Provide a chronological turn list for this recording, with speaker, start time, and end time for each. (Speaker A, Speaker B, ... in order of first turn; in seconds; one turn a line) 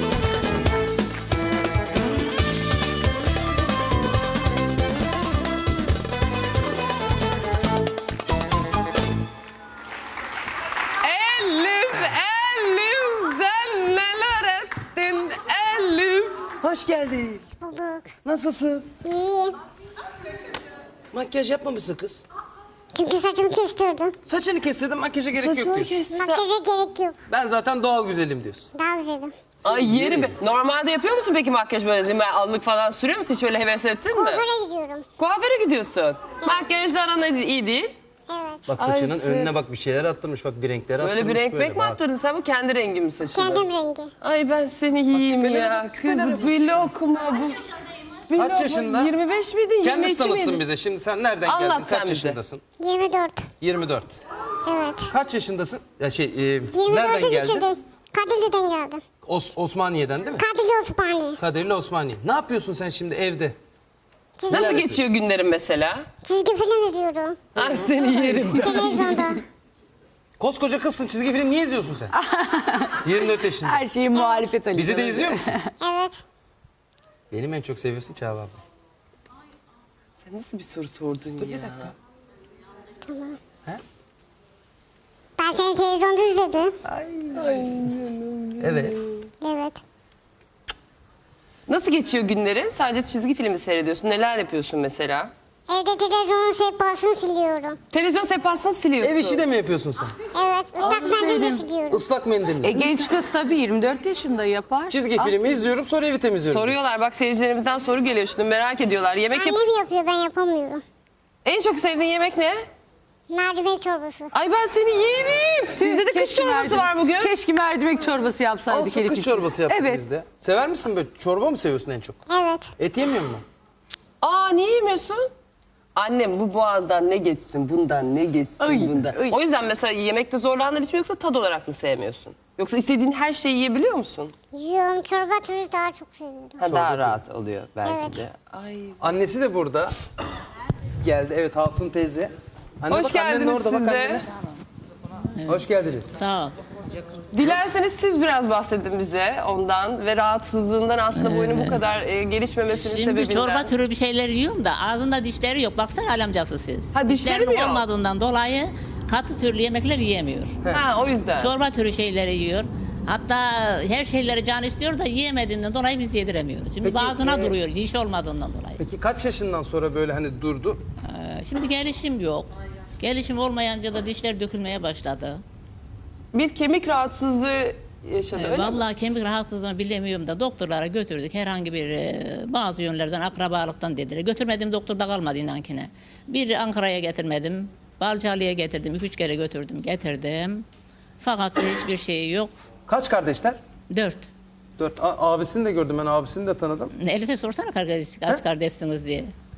Speaker A: 11.0-16.4
Speaker B: 16.6-17.5
Speaker C: 17.6-18.2
Speaker B: 18.2-18.9
Speaker C: 19.0-19.6
Speaker B: 21.1-22.2
Speaker C: 22.9-24.2
Speaker B: 24.3-26.0
Speaker A: 25.3-26.4
Speaker C: 26.1-27.2
Speaker B: 27.3-28.7
Speaker C: 28.8-29.4
Speaker B: 29.6-30.3
Speaker A: 29.6-34.4
Speaker C: 34.1-35.0
Speaker A: 35.2-38.0
Speaker C: 38.3-38.7
Speaker B: 38.7-42.0
Speaker A: 38.8-39.5
Speaker A: 41.0-43.7
Speaker C: 43.3-44.1
Speaker A: 44.2-47.6
Speaker B: 45.1-46.9
Speaker A: 48.3-50.6
Speaker B: 48.4-49.1
Speaker B: 49.8-52.6
Speaker A: 51.5-52.4
Speaker C: 52.8-53.5
Speaker B: 53.6-54.2
Speaker C: 54.6-55.1
Speaker B: 55.1-57.7
Speaker C: 56.7-59.0
Speaker B: 59.2-60.5
Speaker C: 60.4-61.4
Speaker B: 61.4-63.6
Speaker C: 64.4-64.8
Speaker A: 64.5-66.1
Speaker B: 64.5-65.0
Speaker C: 66.2-67.5
Speaker A: 67.5-69.3
Speaker C: 68.5-69.4
Speaker B: 70.4-72.1
Speaker D: 72.1-73.0
Speaker B: 73.0-73.8
Speaker D: 73.6-75.7
Speaker B: 74.7-75.5
Speaker C: 75.8-76.2
Speaker B: 77.3-78.6
Speaker A: 80.2-81.9
Speaker B: 81.4-81.9
Speaker C: 83.1-83.4
Speaker C: 85.4-86.8
Speaker B: 86.9-87.7
Speaker A: 87.3-89.3
Speaker B: 88.6-89.0
Speaker C: 89.4-89.8
Speaker A: 91.7-95.3
Speaker C: 95.7-97.8
Speaker A: 97.9-99.5
Speaker B: 99.0-100.2
Speaker C: 100.3-102.1
Speaker D: 100.8-101.7
Speaker B: 101.9-102.8
Speaker D: 102.6-105.3
Speaker B: 104.9-106.8
Speaker A: 106.4-109.7
Speaker C: 109.3-110.8
Speaker A: 111.4-112.6
Speaker C: 113.3-114.3
Speaker A: 114.3-117.4
Speaker D: 115.8-120.0
Speaker B: 118.7-122.2
Speaker C: 122.3-122.7
Speaker B: 122.8-123.5
Speaker A: 124.2-125.3
Speaker A: 126.0-134.3
Speaker D: 128.6-129.4
Speaker C: 134.5-136.7
Speaker A: 136.6-139.0
Speaker B: 136.6-137.2
Speaker C: 137.8-138.2
Speaker B: 139.0-139.9
Speaker B: 141.0-144.3
Speaker A: 142.9-144.2
Speaker E: 145.4-146.6
Speaker B: 145.5-146.2
Speaker A: 147.3-153.7
Speaker E: 151.1-151.8
Speaker E: 152.7-160.6
Speaker A: 156.9-157.8
Speaker A: 160.7-161.5
Speaker E: 161.4-168.8
Speaker B: 166.8-167.6
Speaker B: 168.8-170.8
Speaker E: 171.1-175.4
Speaker A: 176.3-178.8
Speaker E: 178.4-190.7
Speaker E: 191.2-192.5
Speaker B: 192.9-193.6
Speaker E: 193.9-194.3
Speaker B: 194.8-196.9
Speaker E: 197.0-199.3